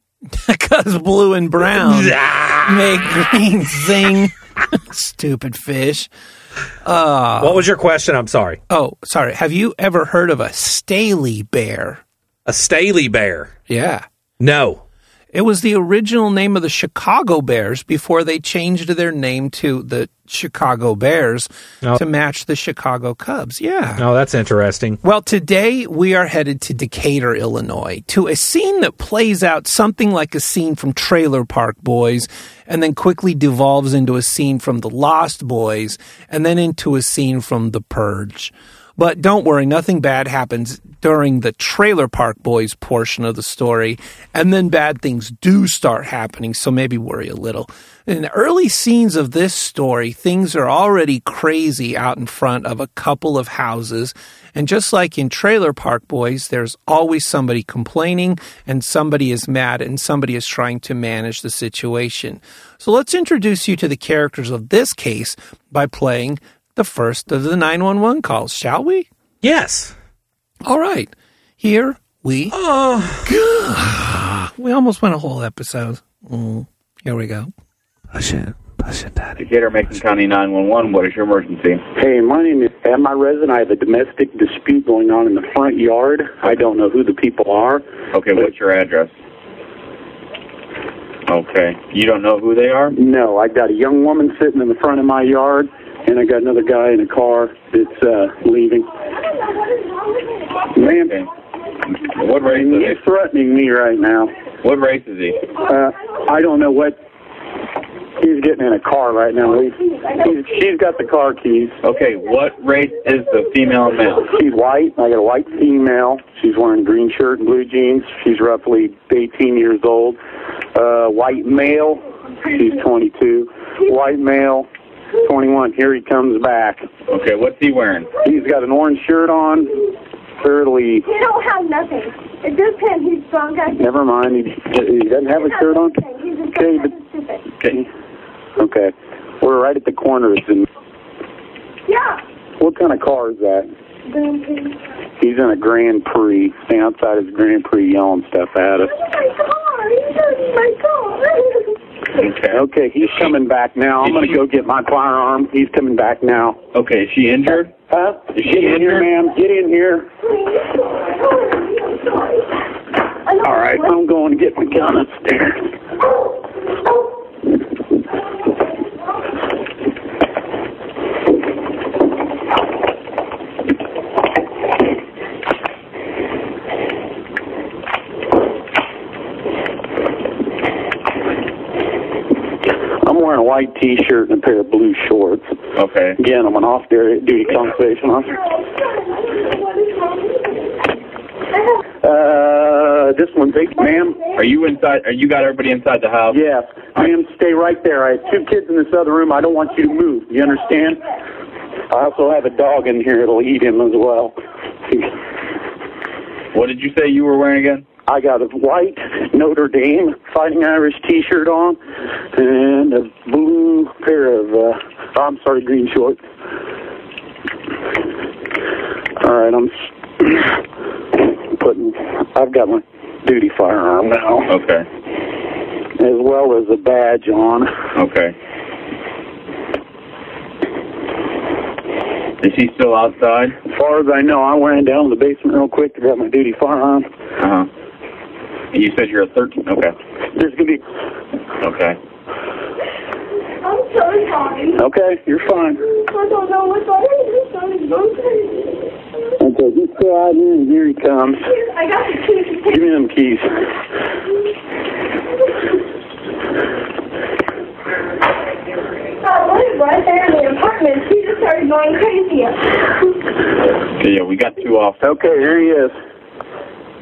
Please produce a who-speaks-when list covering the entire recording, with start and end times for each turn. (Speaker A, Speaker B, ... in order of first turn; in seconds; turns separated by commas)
Speaker A: 0.3-6.1, Speaker B: 1.6-3.3, Speaker A: 6.8-7.6, Speaker B: 7.4-8.6, Speaker A: 8.7-12.0, Speaker B: 12.4-13.6, Speaker A: 13.7-14.0, Speaker B: 14.4-14.8, Speaker A: 15.3-24.0, Speaker B: 24.0-25.0, Speaker A: 25.0-69.1, Speaker B: 69.4-70.0, Speaker A: 70.6-72.6, Speaker B: 72.5-73.3, Speaker A: 73.2-77.5, Speaker B: 78.1-79.4, Speaker C: 79.4-81.8, Speaker D: 82.0-87.8, Speaker C: 88.1-89.1, Speaker C: 91.3-92.9, Speaker D: 92.9-98.9, Speaker D: 100.7-101.2, Speaker C: 102.0-103.0, Speaker D: 102.5-104.3, Speaker C: 104.6-105.4, Speaker D: 105.6-107.0, Speaker D: 108.2-111.8, Speaker C: 111.8-114.3, Speaker D: 114.3-120.2, Speaker D: 120.7-124.7, Speaker D: 125.2-126.8, Speaker C: 127.1-128.1, Speaker D: 128.2-129.7, Speaker D: 130.4-131.1, Speaker E: 131.0-133.9, Speaker D: 133.8-136.0, Speaker E: 135.4-137.5, Speaker D: 136.5-136.9, Speaker D: 138.6-140.7, Speaker E: 141.9-142.2, Speaker D: 142.6-143.7, Speaker E: 144.1-144.8, Speaker D: 145.2-148.9, Speaker E: 149.1-151.8, Speaker C: 152.2-153.3, Speaker D: 152.5-156.6, Speaker C: 154.0-154.4, Speaker C: 156.7-157.7, Speaker D: 157.9-160.1, Speaker C: 158.3-159.1, Speaker E: 160.9-162.0, Speaker E: 163.3-163.9, Speaker D: 163.4-165.6, Speaker D: 183.0-185.5, Speaker C: 185.8-186.2, Speaker D: 186.2-188.3, Speaker E: 189.3-189.6, Speaker D: 192.0-194.2, Speaker C: 194.3-196.4, Speaker D: 196.3-201.0, Speaker D: 201.9-204.3, Speaker D: 204.9-205.1, Speaker C: 206.5-207.8, Speaker D: 208.1-211.8, Speaker D: 212.3-216.2, Speaker D: 219.2-220.6, Speaker D: 221.2-224.5, Speaker C: 224.5-224.8, Speaker D: 226.0-227.7, Speaker C: 227.9-228.3, Speaker C: 232.4-233.6, Speaker D: 233.7-237.1, Speaker C: 237.4-237.7, Speaker C: 238.7-239.9, Speaker D: 240.3-240.8, Speaker C: 241.6-242.0, Speaker E: 243.6-244.8, Speaker D: 244.8-245.8, Speaker E: 245.9-248.8, Speaker D: 249.4-251.4, Speaker E: 251.6-252.8, Speaker D: 252.7-253.7, Speaker E: 259.2-262.7, Speaker C: 264.0-265.1, Speaker D: 265.0-265.9